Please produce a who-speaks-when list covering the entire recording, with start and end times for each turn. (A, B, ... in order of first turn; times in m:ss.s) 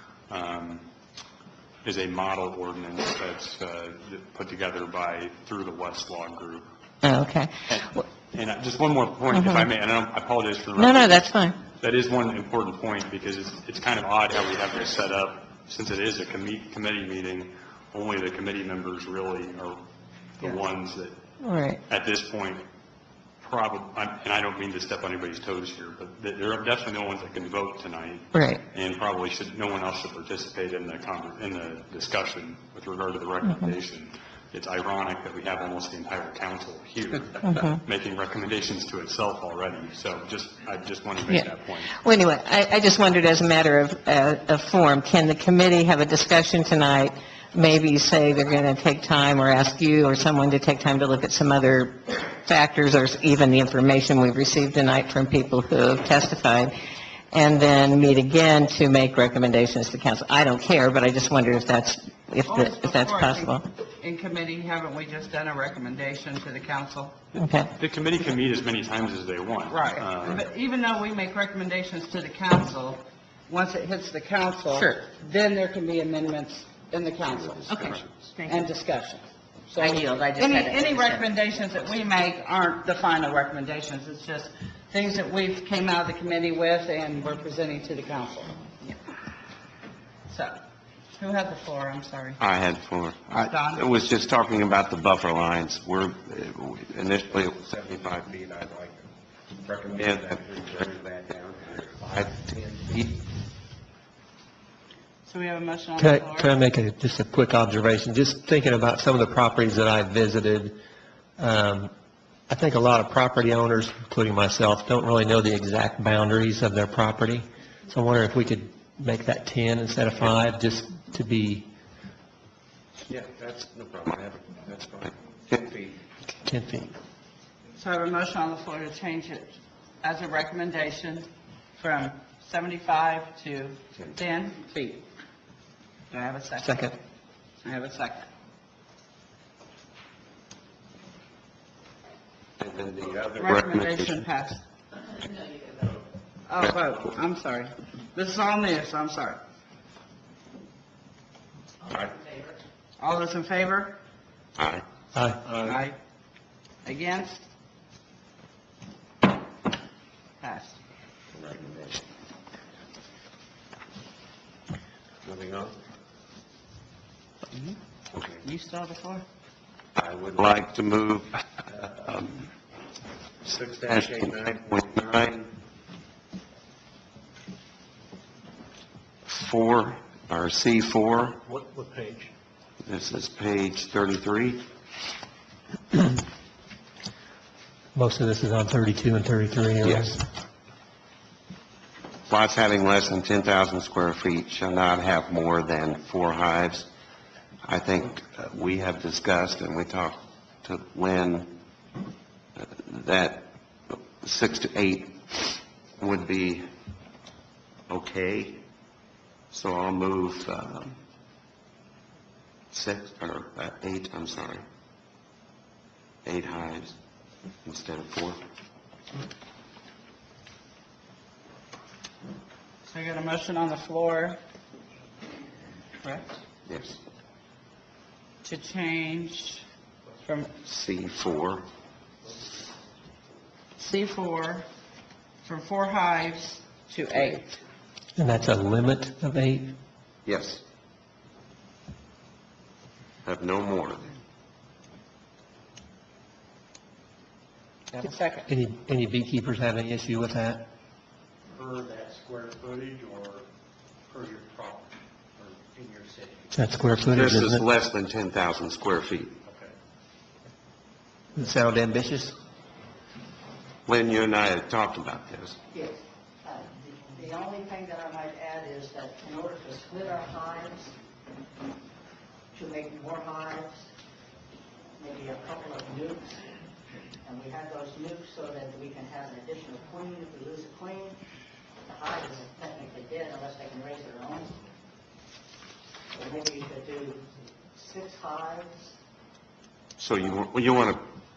0:00.3-0:00.9 A
0:01.8-0:06.7 A
0:07.0-0:07.5 B
0:07.7-0:21.3 A
0:09.3-0:09.7 B
0:10.8-0:11.6 B
0:21.4-0:21.8 B
0:21.9-0:22.7 A
0:23.4-0:42.0 A
0:28.3-0:28.6 B
0:33.4-0:33.7 B
0:37.4-0:37.8 B
0:42.0-0:56.7 B
0:57.3-1:03.7 B
1:02.4-1:07.3 C
1:07.4-1:07.7 B
1:07.8-1:10.4 A
1:09.7-1:28.6 C
1:17.5-1:18.0 D
1:17.7-1:18.7 B
1:19.8-1:21.5 B
1:30.3-1:30.6 C
1:31.2-1:32.4 C
1:32.4-1:39.1 D
1:33.3-1:33.9 C
1:39.6-1:43.2 D
1:45.3-1:46.6 C
1:46.0-1:50.8 E
1:51.4-1:51.9 E
1:52.5-2:01.7 E
2:03.0-2:06.0 D
2:06.4-2:07.0 E
2:07.8-2:15.0 C
2:16.1-2:16.9 C
2:16.6-2:16.9 E
2:17.6-2:18.3 C
2:22.6-2:24.2 D
2:23.4-2:24.6 C
2:26.5-2:29.4 C
2:31.9-2:32.2 D
2:33.0-2:34.0 C
2:34.6-2:34.8 D
2:35.1-2:35.8 E
2:35.6-2:36.0 C
2:36.8-2:37.4 C
2:40.4-2:40.8 C
2:41.3-2:42.0 D
2:45.2-2:45.7 D
2:48.4-2:49.2 C
2:50.0-2:52.3 D
2:53.4-2:55.5 D
2:59.3-3:01.4 D
3:01.4-3:02.3 F
3:02.9-3:04.6 D
3:08.0-3:10.2 E
3:09.8-3:10.2 D
3:12.3-3:16.9 D
3:17.6-3:21.5 D
3:22.6-3:26.6 D
3:27.9-3:28.6 D
3:29.5-3:31.0 D
3:32.7-3:34.6 D
3:36.2-3:37.0 D
3:37.6-3:38.4 D
3:42.9-3:44.4 C
3:46.0-3:46.3 C
3:46.7-3:47.0 D
3:48.4-3:49.6 C
3:50.2-3:50.5 C
3:50.6-3:51.6 D
3:53.8-3:54.7 C
3:55.4-3:57.6 C
3:58.2-3:59.8 E
4:00.3-4:00.6 D
4:03.2-4:04.1 D
4:07.9-4:08.5 C
4:08.5-4:10.7 E
4:11.5-4:13.5 F
4:14.1-4:16.5 F
4:16.5-4:17.6 E
4:17.1-4:19.3 D
4:21.4-4:22.4 E
4:23.9-4:25.6 D
4:25.7-4:30.9 G
4:32.5-4:33.9 G
4:35.0-4:36.4 G
4:37.2-4:41.2 G
4:41.8-4:44.6 G
4:46.1-4:48.9 G
4:50.0-4:51.0 D